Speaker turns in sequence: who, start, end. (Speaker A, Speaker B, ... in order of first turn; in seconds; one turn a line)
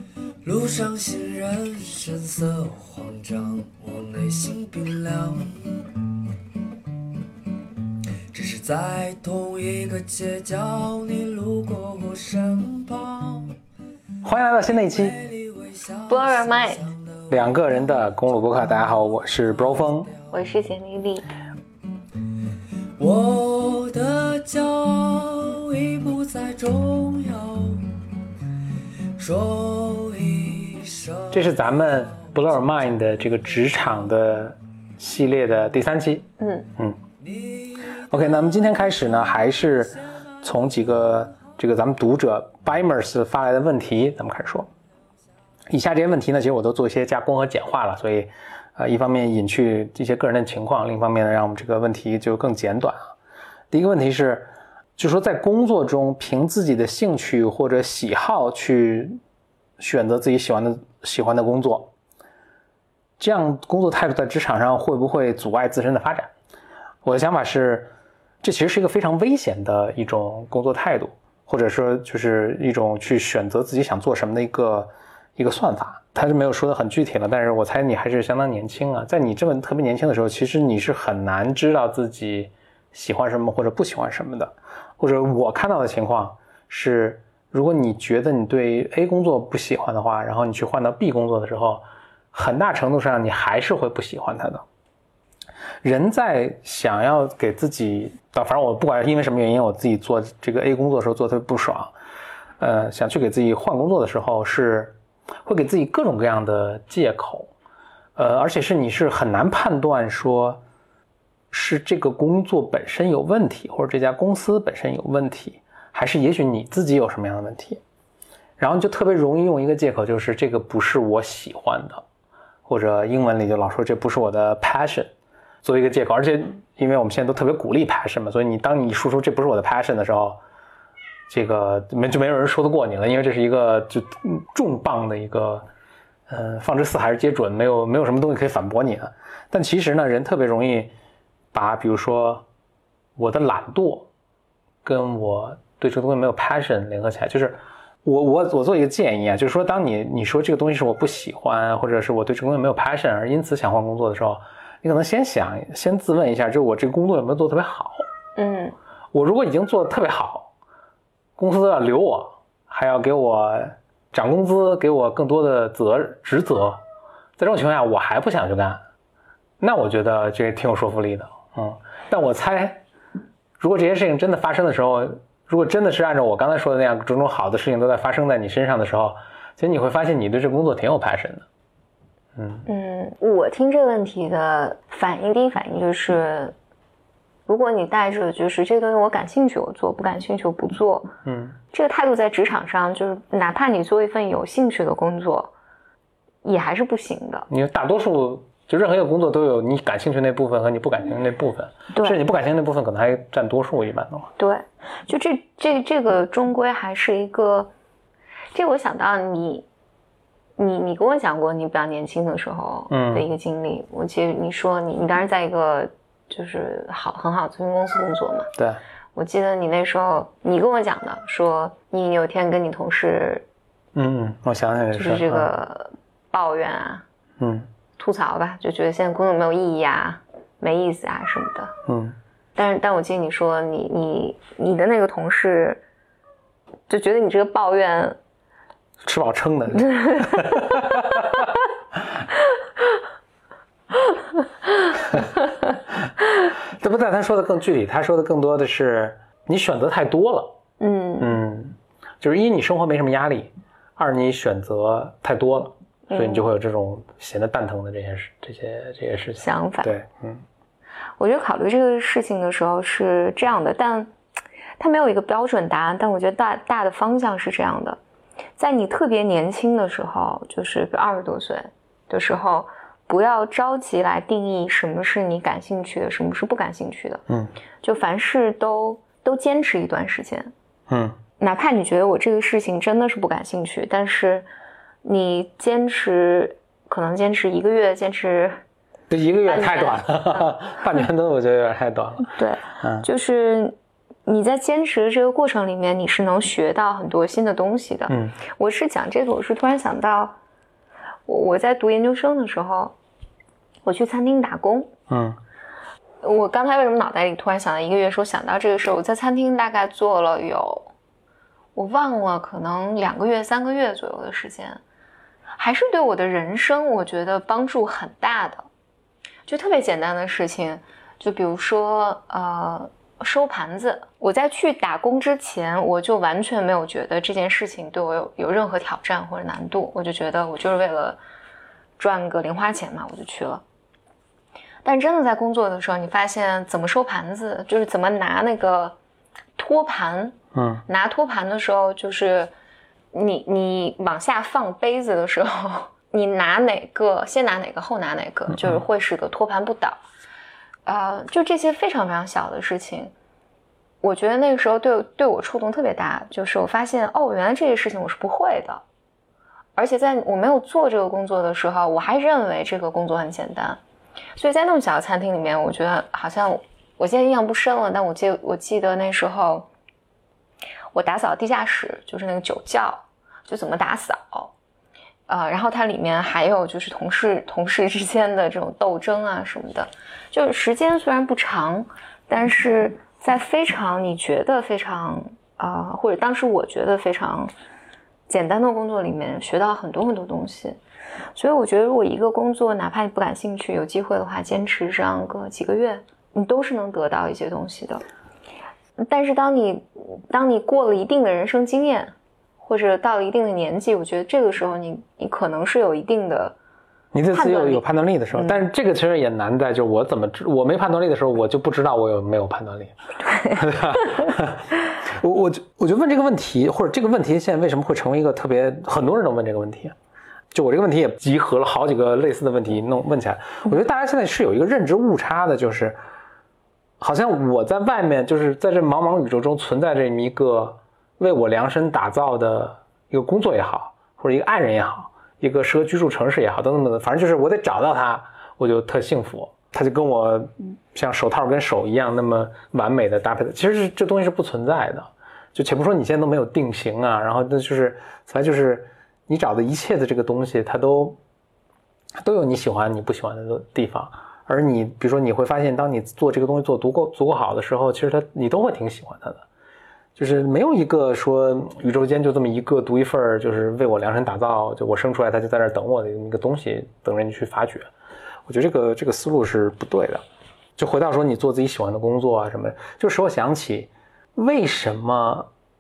Speaker A: 0.4-5.9
Speaker A: 8.3-13.6
Speaker B: 14.2-15.2
Speaker A: 14.9-17.7
Speaker C: 16.1-16.8
Speaker B: 17.3-20.1
Speaker A: 18.8-20.5
Speaker C: 20.3-21.3
Speaker A: 23.0-28.0
Speaker A: 29.2-32.8
Speaker B: 31.3-36.3
Speaker C: 36.4-36.7
Speaker A: 37.2-39.4
Speaker B: 38.1-44.7
Speaker B: 45.7-53.1
Speaker B: 53.7-59.2
Speaker B: 59.8-61.9
Speaker B: 63.2-66.3
Speaker B: 67.0-67.9
Speaker B: 68.4-94.6
Speaker B: 95.8-101.9
Speaker B: 102.6-107.5
Speaker B: 108.2-110.6
Speaker B: 111.5-117.8
Speaker B: 118.6-122.0
Speaker B: 122.7-125.1
Speaker B: 125.6-130.4
Speaker B: 131.3-135.7
Speaker B: 136.3-140.9
Speaker B: 141.5-142.4
Speaker B: 143.2-144.1
Speaker B: 144.8-158.0
Speaker C: 158.4-158.8
Speaker B: 159.1-160.5
Speaker B: 161.4-166.8
Speaker B: 167.4-168.8
Speaker B: 169.6-172.8
Speaker B: 173.6-181.5
Speaker B: 182.4-182.7
Speaker C: 182.7-186.6
Speaker C: 187.5-191.1
Speaker B: 191.2-191.6
Speaker C: 191.7-195.5
Speaker C: 196.4-197.5
Speaker B: 197.5-204.3
Speaker C: 201.9-202.2
Speaker C: 204.4-207.7
Speaker C: 208.5-209.7
Speaker C: 210.6-218.5
Speaker B: 212.9-213.3
Speaker B: 218.6-218.8
Speaker C: 219.2-223.4
Speaker B: 223.9-225.5
Speaker C: 224.9-227.1
Speaker B: 227.4-227.7
Speaker C: 228.0-231.7
Speaker B: 231.9-232.2
Speaker C: 232.6-235.8
Speaker C: 236.9-238.2
Speaker B: 239.0-241.5
Speaker C: 239.9-240.8
Speaker B: 246.8-250.5
Speaker C: 250.8-251.4
Speaker B: 251.2-260.4
Speaker C: 256.1-256.5
Speaker C: 259.4-259.9
Speaker C: 261.2-264.1
Speaker C: 264.8-268.0
Speaker C: 268.6-277.2
Speaker C: 277.8-280.5
Speaker B: 280.9-281.2
Speaker C: 281.4-284.5
Speaker C: 285.0-288.6
Speaker B: 289.1-293.1
Speaker C: 289.5-290.5
Speaker C: 292.3-293.8
Speaker C: 294.3-300.4
Speaker B: 298.1-298.4
Speaker C: 301.3-302.9
Speaker C: 303.9-304.9
Speaker B: 305.1-305.4
Speaker C: 306.2-310.9
Speaker C: 311.8-314.8
Speaker C: 315.6-318.7
Speaker C: 319.5-331.2
Speaker C: 332.0-333.6
Speaker C: 334.9-339.0
Speaker C: 339.6-342.5
Speaker B: 340.5-340.8
Speaker C: 343.1-350.0
Speaker C: 350.9-353.1
Speaker C: 354.0-358.8
Speaker C: 359.8-363.8
Speaker C: 364.4-369.7
Speaker C: 370.9-374.5
Speaker C: 375.3-387.5
Speaker C: 388.3-390.8
Speaker C: 391.4-398.0
Speaker C: 399.0-402.1
Speaker C: 402.6-406.6
Speaker B: 407.1-412.9
Speaker C: 407.3-407.8
Speaker C: 408.4-408.6
Speaker C: 413.3-413.6
Speaker B: 413.5-419.9
Speaker B: 420.5-426.0
Speaker B: 427.0-451.2
Speaker B: 452.2-459.4
Speaker B: 460.2-467.9
Speaker B: 468.5-470.2
Speaker B: 470.8-475.5